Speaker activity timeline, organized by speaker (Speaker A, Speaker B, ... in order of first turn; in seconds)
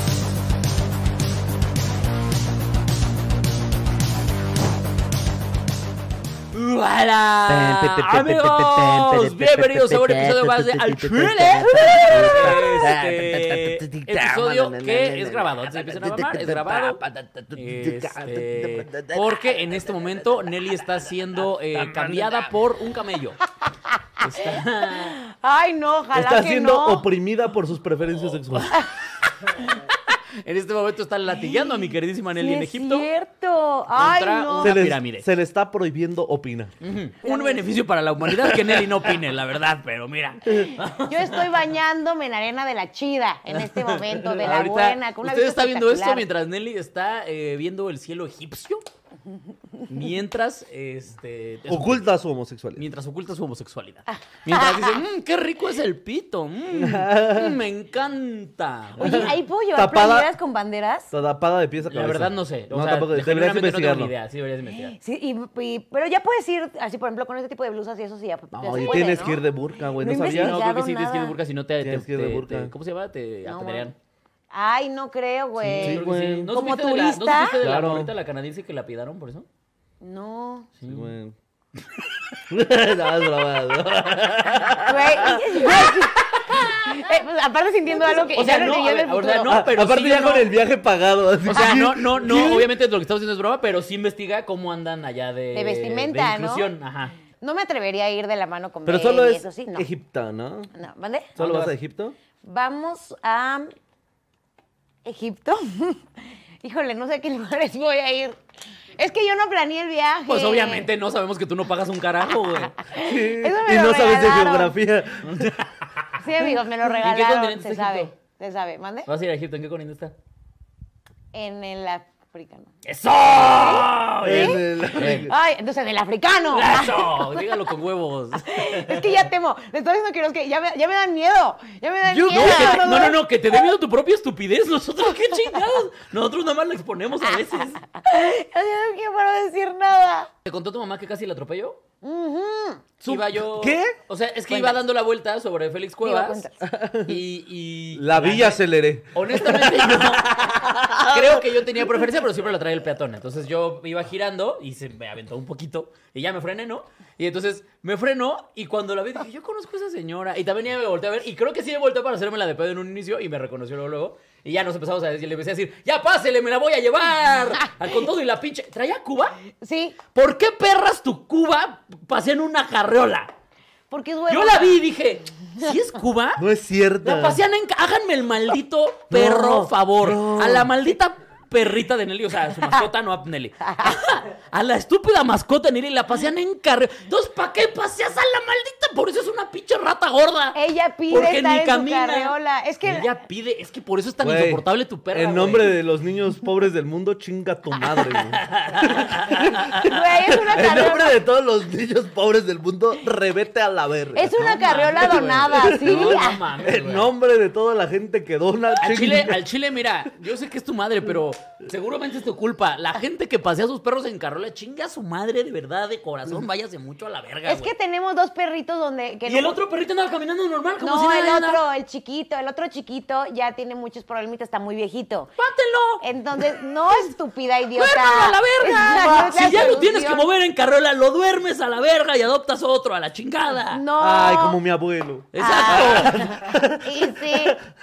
Speaker A: 6.5-17.0, 17.5-23.4, 24.2-25.2, 28.3-28.8, 30.1-33.1, 34.0-35.3, 36.8-41.6, 43.8-48.8, 49.9-52.0, 52.8-59.4, 61.8-64.9, 70.2-74.0, 75.7-79.5, 80.8-81.1, 82.0-82.3, 87.9-90.5, 91.4-97.2, 101.4-101.7, 110.3-112.7, 115.2-118.1, 119.1-120.1, 122.8-125.3, 126.4-129.2, 132.3-137.8, 140.4-141.8, 143.1-146.4, 147.0-148.6, 149.1-169.4, 170.1-173.3, 174.3-176.4, 177.0-190.6, 191.1-195.8, 197.9-200.0, 204.4-207.1, 208.8-217.7, 219.3-221.6, 225.4-226.5, 227.7-233.8, 235.3-236.4
Speaker B: 7.5-20.9, 21.6-22.5, 26.1-28.7, 34.6-36.7, 38.3-39.0, 51.7-52.8, 56.7-57.6, 59.0-60.3, 61.1-64.1, 68.5-70.6, 71.8-72.7, 75.6-76.5, 77.6-78.1, 80.9-81.3, 82.5-85.9, 89.5-92.7, 98.8-100.7, 101.3-102.2, 112.9-115.5, 124.2-125.3, 132.0-133.2, 143.0-144.0, 146.6-147.2, 147.9-152.1, 176.4-177.4, 179.1-180.7, 194.2-209.4, 234.0-237.6
Speaker C: 23.6-27.1, 32.3-34.8, 37.2-37.6, 40.5-46.2, 49.7-50.1, 54.1-55.0, 59.0-61.1, 64.9-69.4, 70.0-71.3, 73.5-73.9, 74.5-77.6, 80.0-80.7, 84.8-89.6, 95.5-96.7, 97.3-99.8, 100.7-101.3, 102.4-103.7, 105.0-106.1, 106.6-108.4, 109.0-110.9, 112.6-114.7, 116.2-119.1, 121.3-122.7, 123.3-127.5, 128.4-133.1, 137.2-140.3, 142.0-142.8, 144.5-144.8, 146.0-146.6, 169.6-170.0, 173.9-174.8, 183.6-184.0, 190.5-193.1, 199.3-201.1, 204.1-206.4, 217.5-219.6, 220.8-225.3, 226.0-230.3, 233.7-234.6, 235.4-237.6